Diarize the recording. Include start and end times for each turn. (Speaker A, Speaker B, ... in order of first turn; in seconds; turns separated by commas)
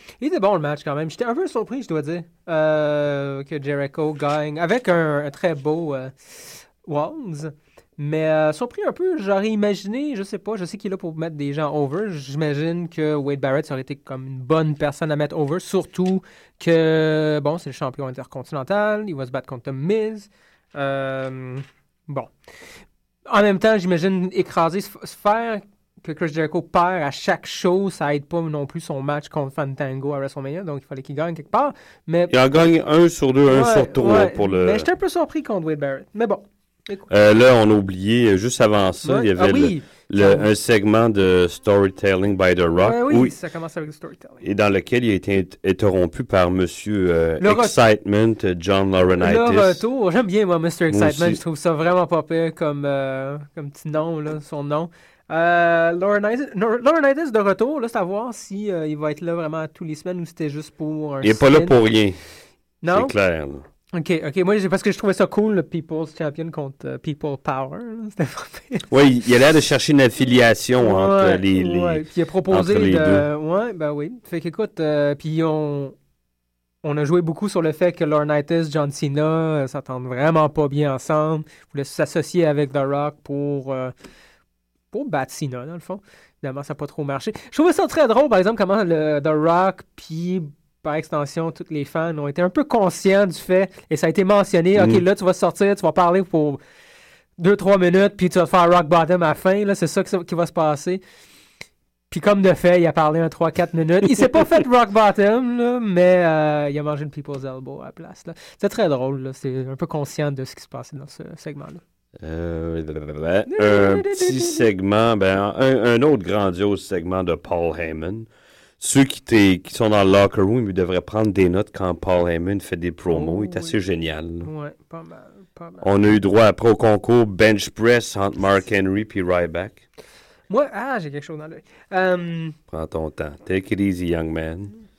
Speaker A: 0.2-22.3, Speaker A: 23.3-32.6, Speaker B: 32.3-34.9, Speaker A: 33.5-37.1, Speaker B: 37.1-43.3, Speaker A: 39.0-40.5, Speaker A: 42.8-44.5, Speaker B: 44.4-49.8, Speaker A: 47.4-47.8, Speaker A: 49.2-61.8, Speaker B: 50.9-51.4, Speaker B: 61.2-62.2, Speaker A: 62.8-63.1, Speaker B: 62.9-63.6, Speaker A: 63.9-68.9, Speaker B: 68.9-73.3, Speaker A: 70.8-76.0, Speaker A: 76.8-83.9, Speaker A: 84.9-96.6, Speaker B: 94.8-95.0, Speaker A: 97.4-101.0, Speaker A: 102.1-111.8, Speaker B: 112.2-118.3, Speaker A: 113.5-114.7, Speaker B: 118.8-124.5, Speaker A: 123.1-123.8, Speaker A: 124.4-125.9, Speaker B: 125.8-129.8, Speaker A: 130.5-132.6, Speaker B: 132.7-134.8